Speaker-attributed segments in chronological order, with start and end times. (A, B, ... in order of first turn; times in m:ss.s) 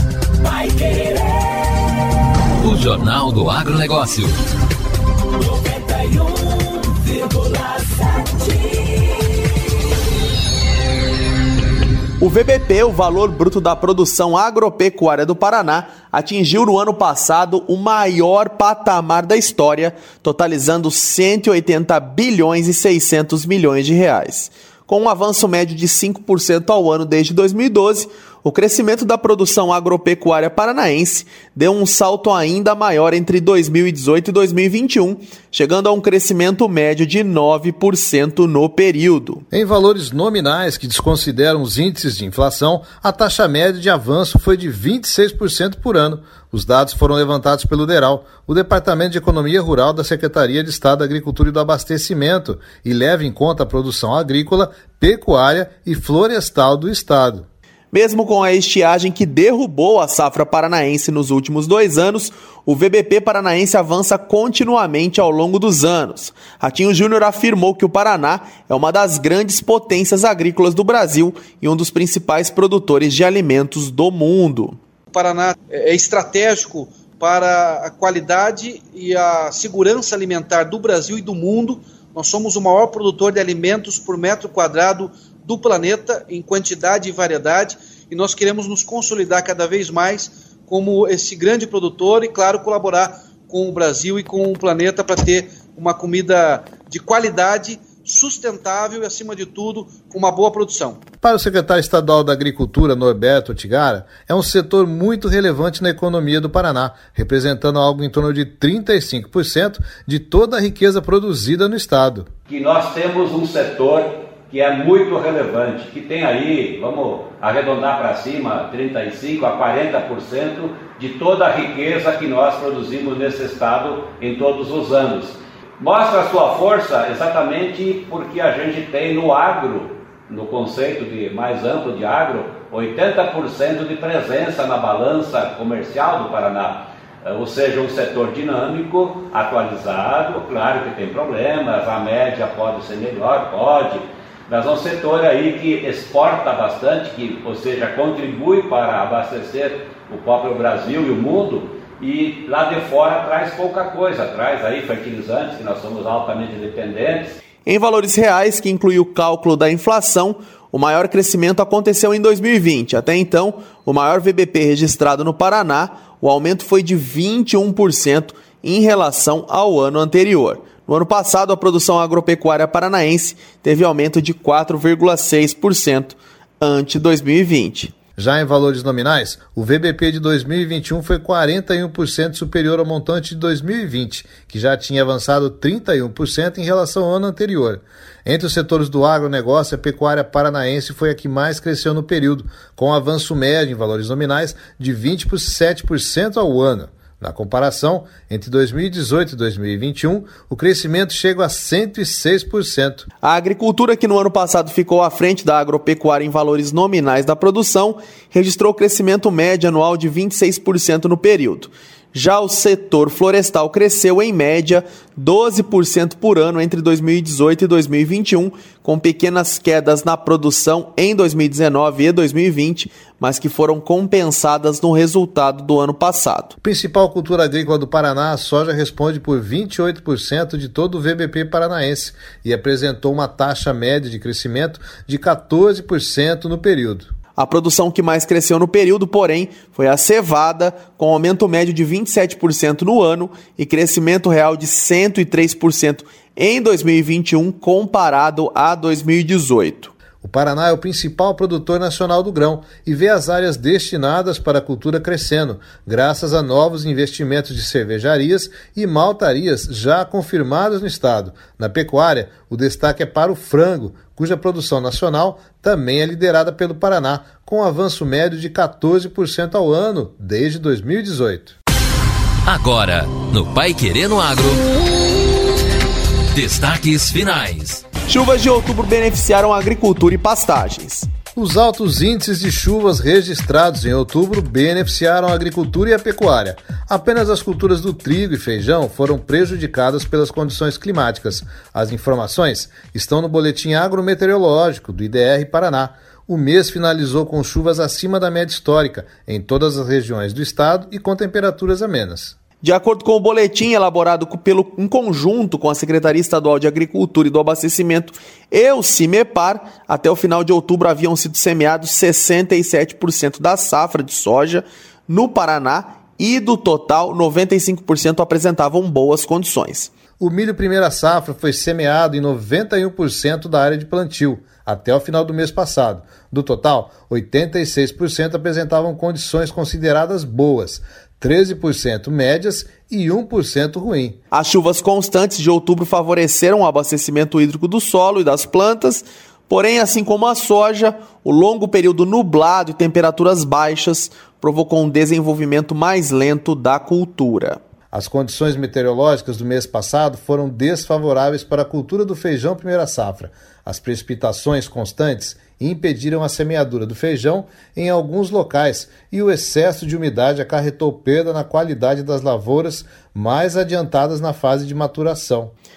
0:02.6-0:04.4 A
0:12.2-0:39.4 B
0:39.5-0:57.4 C
0:57.9-1:14.8 B
1:15.1-1:41.0 D
1:41.2-1:52.3 C
1:52.5-2:37.4 E
2:37.6-2:57.9 B
2:58.2-3:23.0 C
3:23.2-3:46.5 B
3:46.6-3:57.1 C
3:57.4-4:09.9 B
4:10.2-4:31.6 C
4:32.4-4:34.6 A
4:36.3-4:37.8 A
4:38.1-4:41.1 B
4:41.4-5:02.4 C
5:02.6-5:19.9 B
5:20.2-5:34.2 C
5:34.3-5:47.6 B
5:47.9-6:05.5 C